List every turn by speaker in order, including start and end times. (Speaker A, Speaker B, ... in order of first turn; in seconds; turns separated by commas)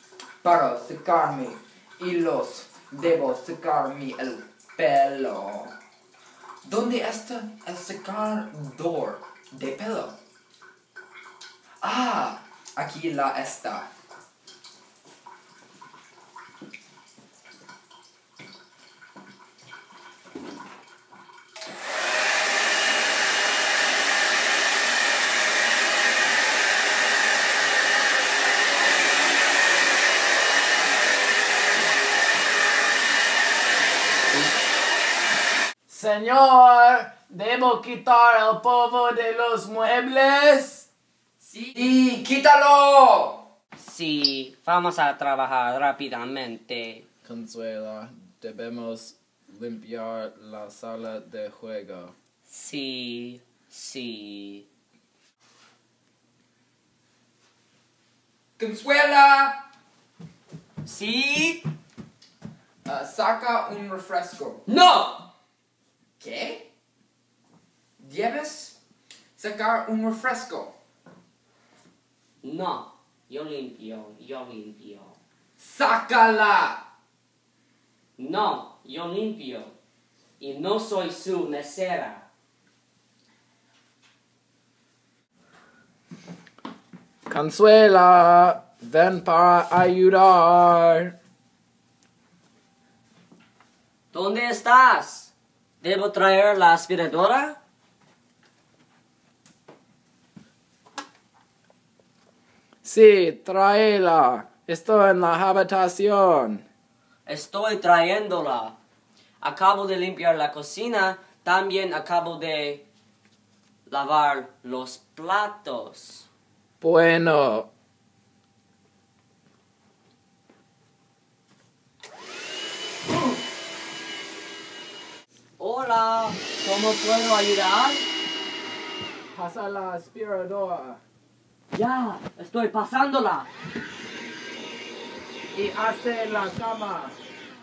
Speaker A: 0.4-5.8, Speaker A: 6.6-10.2, Speaker A: 11.8-13.9, Speaker B: 35.9-40.9, Speaker A: 41.4-43.4, Speaker C: 43.8-47.0, Speaker B: 47.2-52.1, Speaker C: 52.5-54.6, Speaker A: 58.6-59.6, Speaker C: 60.8-61.6, Speaker A: 62.8-64.6, Speaker C: 64.7-65.3, Speaker A: 66.2-66.6, Speaker A: 68.0-68.8, Speaker A: 69.4-70.7, Speaker C: 72.4-75.1, Speaker A: 75.6-76.8, Speaker C: 78.2-79.7, Speaker C: 80.4-82.2, Speaker B: 87.3-91.1, Speaker C: 94.1-97.6, Speaker B: 102.8-106.6, Speaker C: 107.2-108.8, Speaker C: 109.4-112.8, Speaker C: 113.9-116.3, Speaker B: 116.8-117.7, Speaker C: 125.6-128.1, Speaker B: 129.3-131.0, Speaker C: 131.7-133.5, Speaker B: 135.5-137.2